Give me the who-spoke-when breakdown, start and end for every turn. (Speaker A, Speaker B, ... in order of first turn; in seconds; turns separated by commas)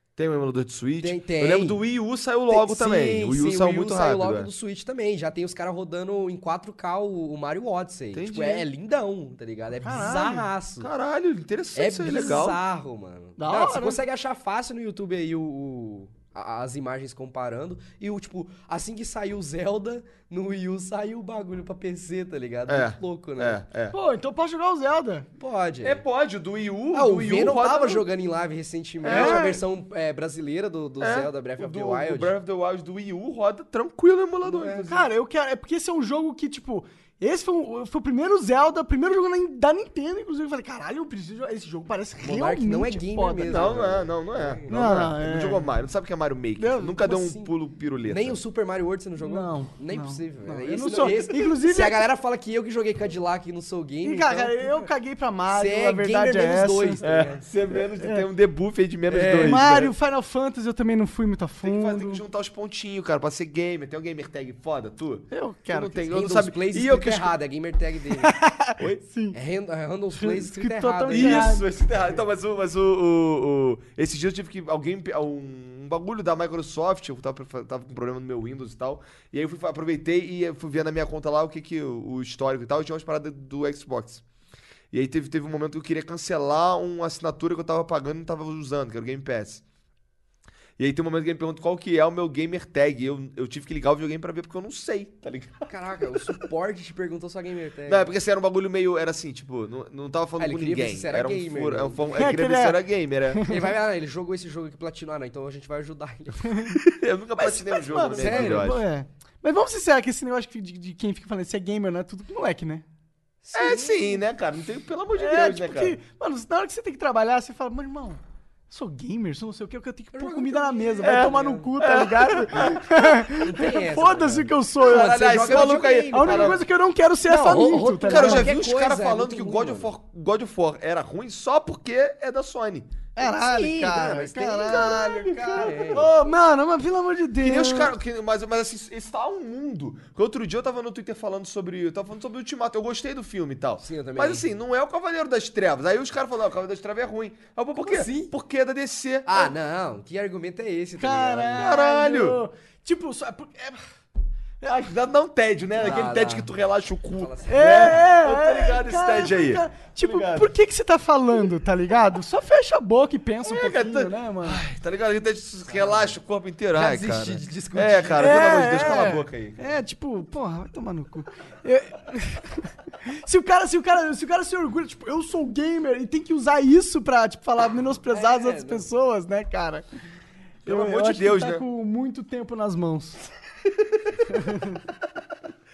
Speaker A: 0.2-4.5, Speaker B: 1.0-1.8, Speaker B: 2.5-10.9, Speaker A: 8.1-8.7, Speaker C: 9.8-10.5, Speaker A: 10.8-12.6, Speaker B: 11.8-23.6, Speaker C: 13.4-14.0, Speaker A: 22.7-24.0, Speaker C: 23.9-25.3, Speaker B: 25.4-26.0, Speaker A: 25.8-28.1, Speaker B: 26.9-32.3, Speaker A: 29.0-29.5, Speaker C: 29.1-29.6, Speaker A: 31.0-35.1, Speaker B: 34.4-34.9, Speaker C: 34.9-43.9, Speaker B: 42.2-44.8, Speaker A: 43.5-48.4, Speaker C: 44.7-45.7, Speaker C: 46.6-47.0, Speaker B: 47.0-47.5, Speaker B: 48.0-54.9, Speaker C: 49.2-52.0, Speaker C: 54.0-57.0, Speaker B: 55.5-57.4, Speaker A: 57.0-59.9, Speaker C: 57.9-58.3, Speaker B: 59.1-59.6, Speaker C: 59.4-62.2, Speaker A: 61.6-67.3, Speaker C: 65.3-66.0, Speaker B: 66.1-68.3, Speaker C: 68.2-69.4, Speaker B: 69.3-71.6, Speaker C: 70.2-71.7, Speaker A: 71.1-84.2, Speaker A: 84.9-89.6, Speaker A: 90.8-96.4, Speaker B: 95.7-98.1, Speaker A: 97.9-103.4, Speaker B: 100.4-102.2, Speaker C: 102.2-103.7, Speaker B: 103.5-106.5, Speaker C: 106.5-106.8, Speaker A: 106.8-108.8, Speaker C: 107.4-112.8, Speaker B: 108.1-108.7, Speaker B: 113.4-114.2, Speaker A: 113.5-116.0, Speaker C: 115.2-128.5, Speaker B: 120.1-121.7, Speaker A: 121.0-122.8, Speaker B: 123.3-126.6, Speaker A: 124.8-126.6, Speaker B: 127.3-129.9, Speaker A: 128.1-133.1, Speaker C: 133.2-137.9, Speaker B: 133.2-136.1, Speaker A: 134.6-136.1, Speaker A: 137.4-149.5, Speaker B: 143.8-144.5, Speaker B: 147.8-148.3, Speaker B: 149.3-151.7, Speaker C: 151.0-153.8, Speaker A: 151.6-152.4, Speaker A: 154.6-160.5, Speaker B: 155.8-156.5, Speaker B: 157.2-157.9, Speaker C: 157.5-164.6, Speaker A: 163.4-169.7, Speaker B: 165.7-166.1, Speaker B: 166.7-169.1, Speaker C: 168.2-179.8, Speaker B: 178.1-178.9, Speaker C: 180.7-183.2, Speaker A: 180.7-181.7, Speaker A: 183.8-184.4, Speaker C: 184.3-184.8